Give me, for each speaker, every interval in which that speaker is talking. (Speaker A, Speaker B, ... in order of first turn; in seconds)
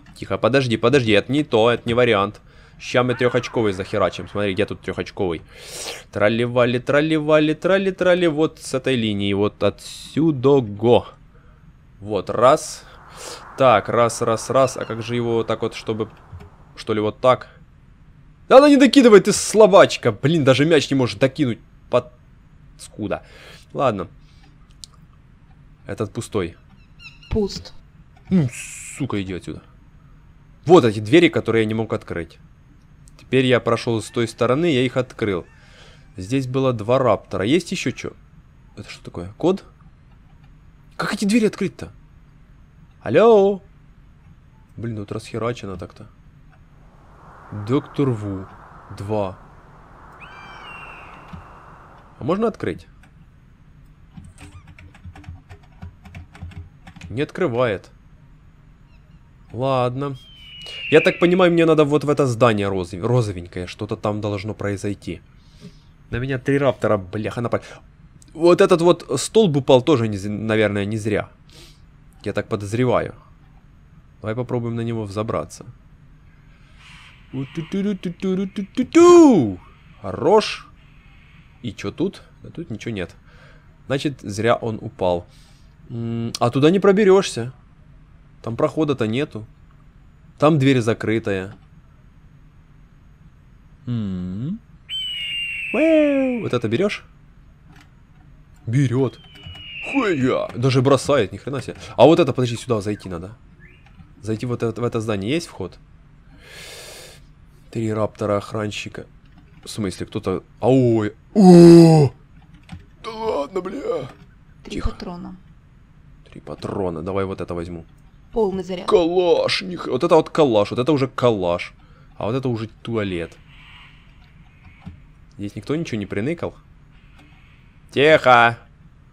Speaker A: 0.1-11.1, 12.0-12.9, 13.5-16.1, 16.8-17.5, 18.5-22.1, 22.8-24.1, 25.9-26.6, 28.3-29.6, 30.6-32.4, 33.2-35.5, 36.1-38.1, 38.8-39.6, 41.0-41.9, 43.0-43.6, 44.8-46.1, 47.5-49.4, 52.2-52.9, 57.1-57.9, 59.5-60.2, 60.9-65.2, 66.1-67.8, 68.3-71.3, 72.2-73.2, 74.2-75.7, 77.3-80.7, 81.6-83.2, 83.9-85.3, 85.9-87.5, 88.4-89.5, 90.4-91.5, 93.9-94.6, 95.7-97.0, 98.7-99.2, 99.8-103.4, 104.2-105.8, 107.7-109.1, 109.6-112.1, 113.0-114.1, 114.7-115.0, 116.3-117.9, 118.8-123.4, 125.4-126.6, 127.9-128.6
Speaker B: 27.3-27.7, 114.6-115.4, 118.3-119.0